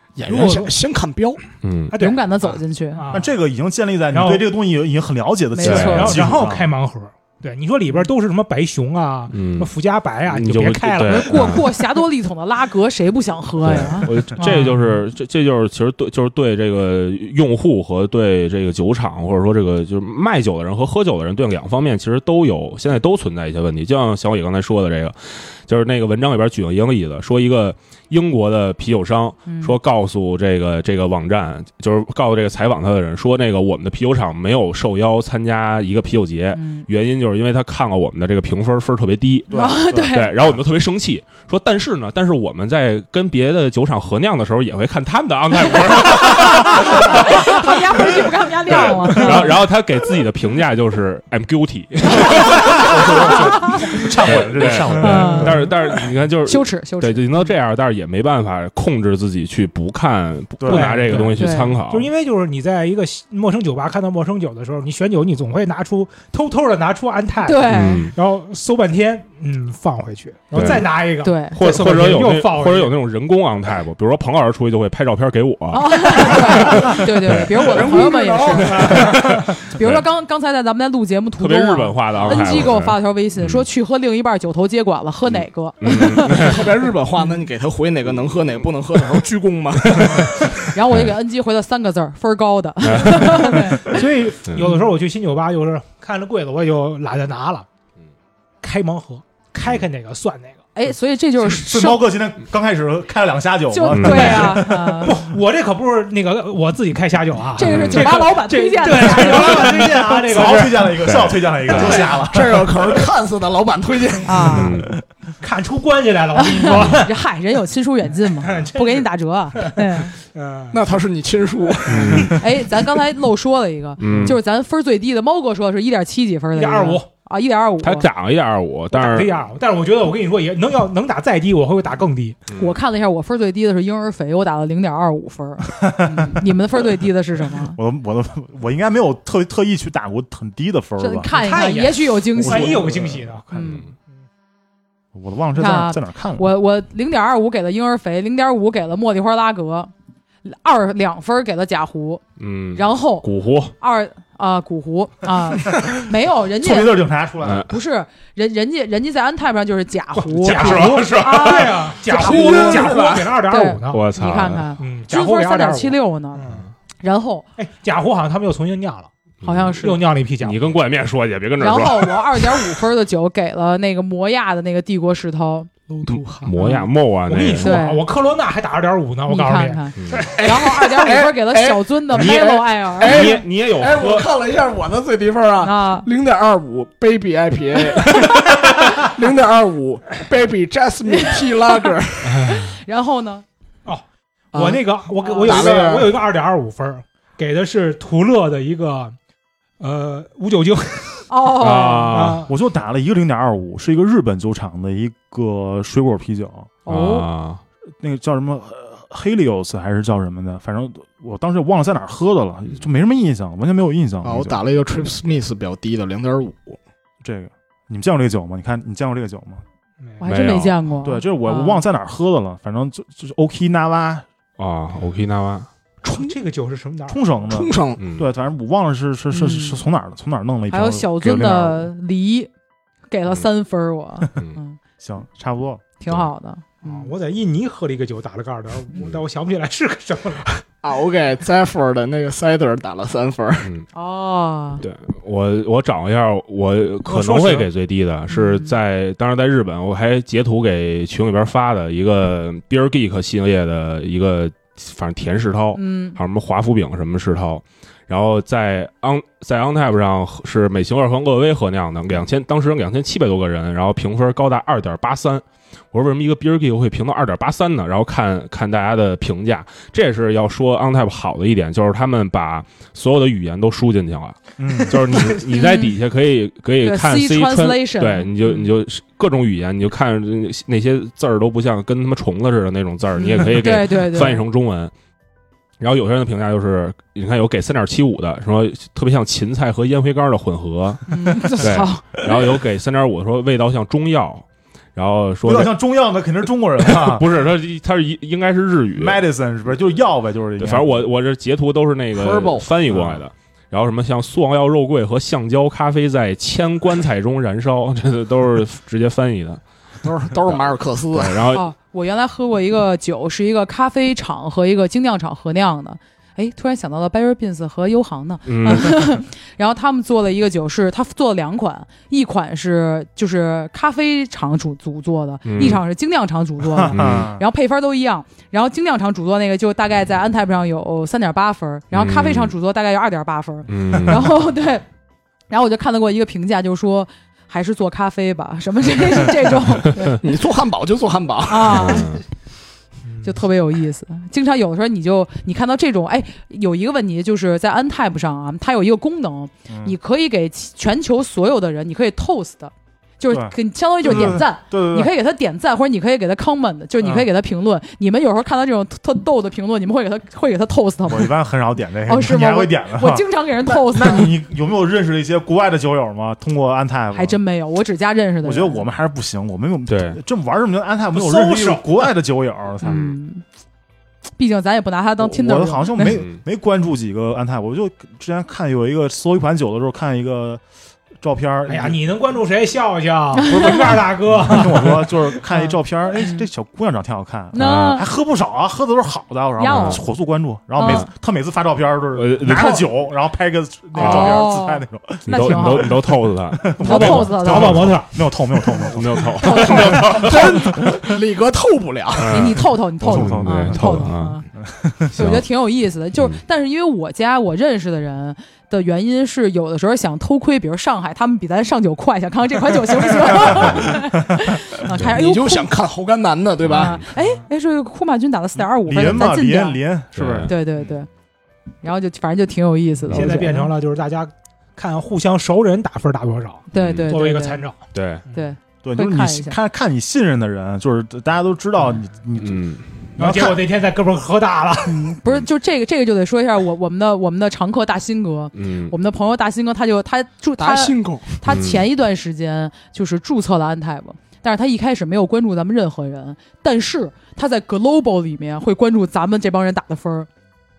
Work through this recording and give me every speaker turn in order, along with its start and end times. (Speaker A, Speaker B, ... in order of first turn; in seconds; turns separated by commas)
Speaker A: 0.1-1.4, Speaker B: 0.2-0.7, Speaker C: 1.6-1.9, Speaker B: 1.9-2.3, Speaker D: 1.9-3.0, Speaker B: 2.9-3.3, Speaker E: 3.1-6.7, Speaker B: 4.1-4.5, Speaker D: 5.5-6.2, Speaker C: 5.6-6.2, Speaker B: 5.7-11.7, Speaker C: 9.3-9.7, Speaker C: 10.3-11.6, Speaker D: 11.1-14.7, Speaker C: 13.6-47.8, Speaker B: 14.4-14.9, Speaker D: 29.5-29.8, Speaker D: 36.5-36.9, Speaker E: 39.5-40.6, Speaker D: 39.5-40.3, Speaker D: 46.2-49.5, Speaker C: 48.7-62.1, Speaker E: 52.7-55.7, Speaker D: 53.5-53.9, Speaker D: 55.0-55.7, Speaker B: 55.2-55.5, Speaker D: 56.5-57.5, Speaker E: 60.6-61.3, Speaker B: 60.7-73.0, Speaker D: 61.4-61.8, Speaker D: 67.4-68.1, Speaker C: 67.7-68.1, Speaker C: 70.5-71.0, Speaker D: 71.2-71.5, Speaker C: 71.5-77.7, Speaker D: 75.7-86.6, Speaker A: 77.6-79.1, Speaker C: 78.6-80.0, Speaker B: 78.8-79.2, Speaker C: 81.4-83.6, Speaker C: 85.3-86.7, Speaker A: 86.4-90.6, Speaker D: 87.2-87.5, Speaker C: 88.1-88.6, Speaker C: 89.9-91.1, Speaker D: 90.7-94.0, Speaker C: 92.8-93.5, Speaker B: 93.3-97.7, Speaker B: 98.6-100.6, Speaker D: 100.7-102.0, Speaker E: 101.4-105.2, Speaker D: 103.7-105.2, Speaker C: 103.9-104.5, Speaker B: 105.0-111.0, Speaker D: 107.5-109.8, Speaker C: 107.6-108.1, Speaker E: 109.7-113.1, Speaker C: 111.0-111.9, Speaker A: 111.7-114.5, Speaker D: 114.2-114.8, Speaker C: 114.5-114.9, Speaker B: 115.4-117.1, Speaker D: 116.3-120.2, Speaker B: 118.4-120.8, Speaker A: 120.7-122.4, Speaker C: 121.9-122.3, Speaker D: 122.3-128.1, Speaker C: 124.0-124.4, Speaker E: 124.1-124.3, Speaker B: 126.5-127.1, Speaker C: 127.8-129.3, Speaker B: 128.9-132.4, Speaker C: 132.5-132.8, Speaker D: 132.6-137.8, Speaker E: 135.8-136.4, Speaker E: 137.8-141.3, Speaker D: 141.0-142.9, Speaker B: 141.3-143.4, Speaker E: 142.3-143.8, Speaker D: 143.5-143.8, Speaker E: 145.1-146.5, Speaker D: 145.6-149.9, Speaker D: 150.4-152.2, Speaker C: 152.4-153.7, Speaker D: 152.7-153.3, Speaker D: 153.8-157.1, Speaker E: 156.6-157.7, Speaker C: 157.4-157.7, Speaker D: 157.6-162.9, Speaker B: 160.1-164.1, Speaker C: 160.4-161.9, Speaker A: 162.1-163.4, Speaker D: 163.4-166.4, Speaker C: 163.9-164.7, Speaker B: 164.8-166.7, Speaker D: 167.0-167.5, Speaker B: 167.6-169.1, Speaker C: 169.4-169.8, Speaker D: 169.4-170.0, Speaker B: 169.8-170.7, Speaker C: 170.4-172.7, Speaker D: 171.6-175.7, Speaker B: 175.9-176.5, Speaker C: 176.0-177.8, Speaker D: 176.6-176.9, Speaker B: 177.3-180.3, Speaker D: 177.6-178.0, Speaker D: 179.3-183.4, Speaker C: 180.0-180.2, Speaker A: 180.2-192.6, Speaker C: 182.1-184.3, Speaker D: 185.6-186.1, Speaker D: 191.1-191.9, Speaker D: 192.4-193.4, Speaker B: 193.8-199.1, Speaker A: 194.5-194.8, Speaker D: 195.2-195.7, Speaker A: 195.4-196.2, Speaker B: 199.8-201.3, Speaker D: 201.3-202.1, Speaker C: 201.6-202.5, Speaker B: 202.1-202.5, Speaker E: 202.4-206.7, Speaker D: 206.8-207.3, Speaker C: 206.8-207.6, Speaker E: 208.0-214.6, Speaker A: 214.2-216.8, Speaker E: 217.2-219.6, Speaker D: 220.2-221.8, Speaker C: 220.2-220.8, Speaker E: 221.0-224.2, Speaker C: 224.6-225.7, Speaker A: 226.0-226.4, Speaker B: 226.0-227.2, Speaker E: 227.1-231.9, Speaker A: 227.5-228.0, Speaker C: 228.0-228.2, Speaker D: 229.3-229.8, Speaker D: 230.7-232.5, Speaker D: 233.1-234.8, Speaker E: 235.0-235.8, Speaker D: 236.0-237.1, Speaker B: 236.8-240.6, Speaker A: 240.8-243.7, Speaker D: 243.9-244.8, Speaker C: 244.8-284.9, Speaker B: 247.1-247.7, Speaker D: 248.3-248.7, Speaker D: 255.7-256.2, Speaker E: 274.6-275.0, Speaker D: 275.4-275.9, Speaker D: 276.8-278.7, Speaker D: 283.2-284.4, Speaker C: 285.8-291.1, Speaker D: 291.1-292.4, Speaker C: 291.6-295.7, Speaker E: 295.4-297.2, Speaker C: 296.8-299.2, Speaker E: 298.9-301.0, Speaker C: 300.6-309.6, Speaker A: 302.1-303.0, Speaker A: 310.0-311.4, Speaker C: 310.4-311.6, Speaker D: 311.5-334.8, Speaker C: 318.4-319.1, Speaker C: 325.4-325.8, Speaker E: 326.6-327.4, Speaker C: 326.9-327.3, Speaker C: 331.9-332.5, Speaker C: 333.7-334.3, Speaker D: 335.5-340.2, Speaker A: 340.1-342.0, Speaker D: 341.5-342.2, Speaker C: 341.7-342.2, Speaker B: 343.0-343.4, Speaker D: 343.2-361.3, Speaker E: 349.7-349.9, Speaker E: 353.3-355.1, Speaker E: 357.0-357.3, Speaker E: 361.1-367.4, Speaker D: 362.1-364.3, Speaker D: 367.1-368.8, Speaker E: 368.4-373.0, Speaker C: 369.9-370.2, Speaker B: 371.1-371.9, Speaker D: 372.8-373.4, Speaker C: 372.8-373.2, Speaker D: 374.4-376.1, Speaker E: 375.2-380.6, Speaker C: 376.0-376.4, Speaker E: 381.2-382.0, Speaker B: 381.7-385.1, Speaker D: 383.4-383.9, Speaker E: 384.3-401.0, Speaker D: 385.5-386.5, Speaker D: 387.5-388.0, Speaker C: 387.6-388.0, Speaker D: 389.6-390.0, Speaker C: 389.7-390.0, Speaker D: 390.8-391.1, Speaker C: 392.1-392.8, Speaker D: 393.9-395.9, Speaker C: 394.0-394.5, Speaker C: 395.3-397.2, Speaker D: 396.8-397.9, Speaker B: 396.8-398.1, Speaker C: 398.9-400.6, Speaker D: 399.4-400.7, Speaker A: 400.1-402.5, Speaker C: 402.1-404.4, Speaker D: 402.3-404.5, Speaker E: 403.0-405.2, Speaker D: 405.1-415.7, Speaker C: 405.1-405.4, Speaker E: 413.4-414.6, Speaker A: 415.1-417.0, Speaker C: 416.6-417.0, Speaker D: 416.7-419.8, Speaker E: 418.8-420.5, Speaker C: 420.1-420.5, Speaker D: 420.4-421.1, Speaker D: 421.8-423.7, Speaker B: 423.1-428.5, Speaker D: 426.7-427.6, Speaker C: 426.7-427.1, Speaker C: 427.9-428.2, Speaker D: 428.3-429.6, Speaker E: 428.8-432.6, Speaker C: 432.4-432.9, Speaker E: 433.2-433.6, Speaker B: 433.2-435.1, Speaker D: 434.8-450.3, Speaker C: 438.5-438.9, Speaker A: 440.6-441.4, Speaker C: 441.4-441.8